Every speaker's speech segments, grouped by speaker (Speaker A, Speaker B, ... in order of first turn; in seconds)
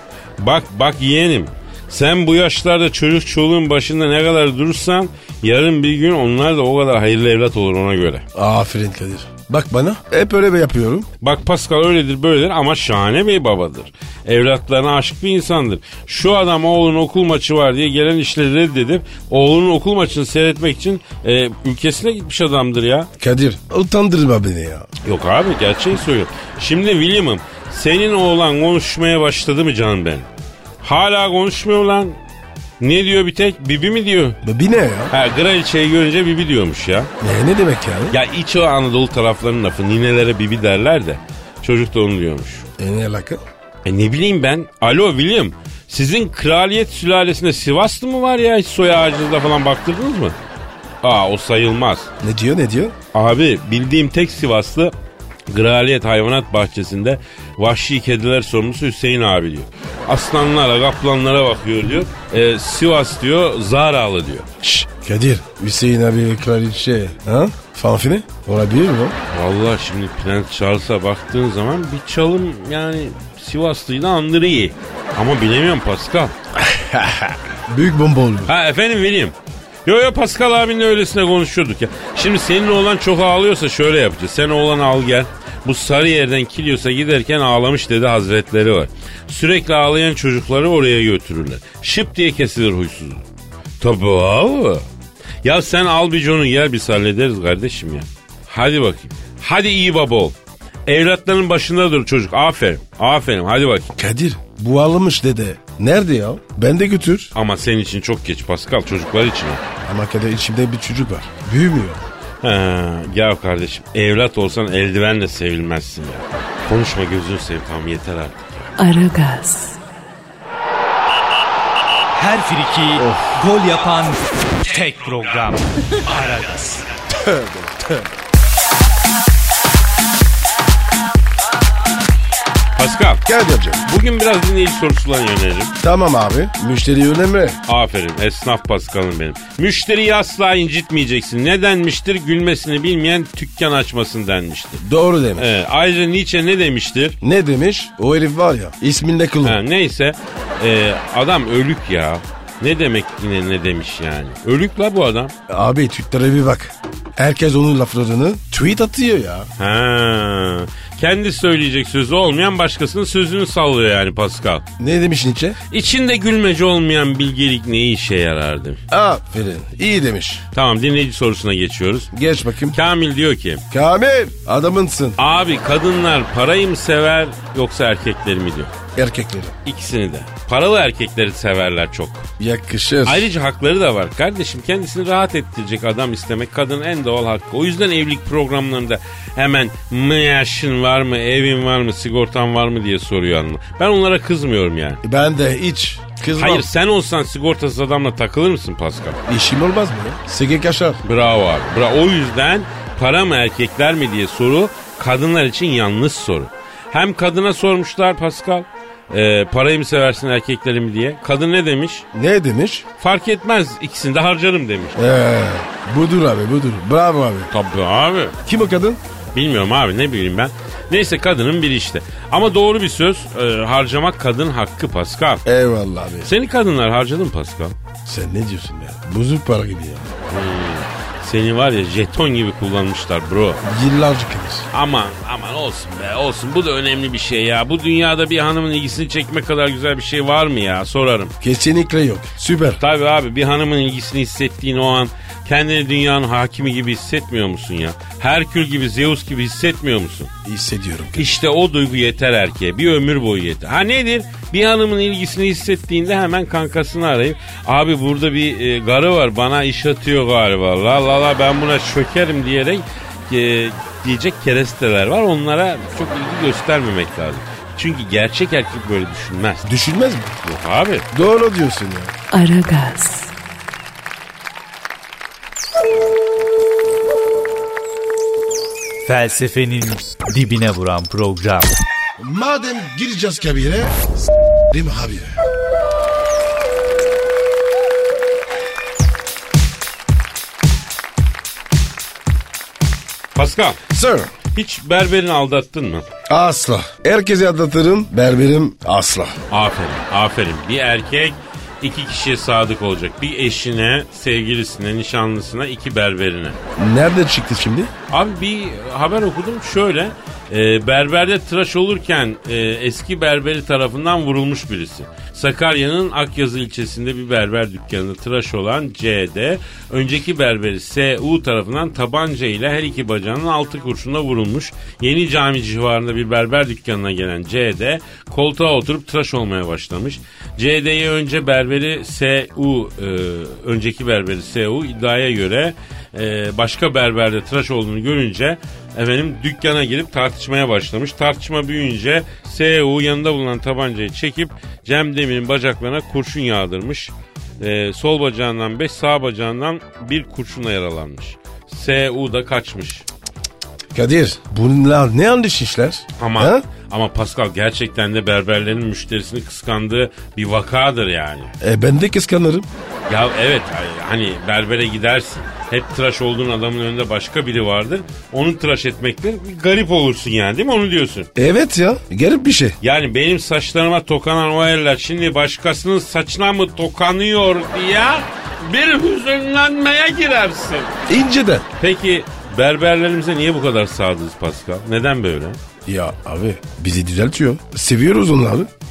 Speaker A: 0.4-8.2, 11.2-23.1, 25.0-30.3, 30.8-32.2, 32.8-34.4, 35.1-37.1, 38.1-42.7, 43.9-50.4, 51.0-52.1, 53.1-54.9, 55.5-64.5, 69.3-76.3, 78.5-93.2, 93.8-94.8, 95.4-100.3, 100.9-103.9, 107.3-109.6, 112.4-118.7, 132.8-133.2, 133.8-135.7, 137.7-144.8, 145.4-147.2, 149.4-155.3, 159.6-164.7, 165.7-168.8, 170.5-172.1, 172.7-173.6, 175.2-178.7, 179.7-182.3, 183.1-195.0, 196.3-199.2, 201.0-212.1, 213.0-215.0, 217.5-218.4, 219.3-225.4, 226.2-227.8, 230.3-233.6, 234.7-241.3, 242.8-250.3, 251.2-269.7, 270.4-271.1, 293.4-293.8, 294.5-296.1, 299.5-306.6, 308.1-353.1, 356.2-361.5, 363.1-371.3, 372.8-380.9, 381.8-385.6
Speaker B: 8.3-11.1, 23.2-24.9, 34.4-35.1, 37.2-38.2, 42.8-43.4, 52.2-53.0, 64.6-69.2, 76.5-78.5, 103.9-107.3, 109.8-112.0, 123.0-123.3, 127.2-128.0, 133.3-133.8, 135.8-137.6, 144.8-145.6, 147.2-149.6, 155.5-159.5, 164.8-165.6, 168.9-170.4, 172.1-172.8, 173.7-175.2, 178.9-179.6, 182.4-183.3, 195.0-196.7, 199.3-201.0, 212.1-212.8, 215.0-217.5, 218.4-219.0, 225.4-226.3, 228.1-230.1, 233.6-234.7, 241.4-242.8, 250.4-251.4, 269.7-270.4, 271.1-272.1, 282.2-284.0, 284.7-285.4, 293.9-294.3, 296.3-299.4, 306.8-307.9, 353.9-356.6, 361.6-362.7, 371.4-372.8, 381.1-381.7, 385.9-388.7
Speaker C: 118.8-119.8, 272.3-273.3
Speaker D: 122.2-126.9, 279.0-281.7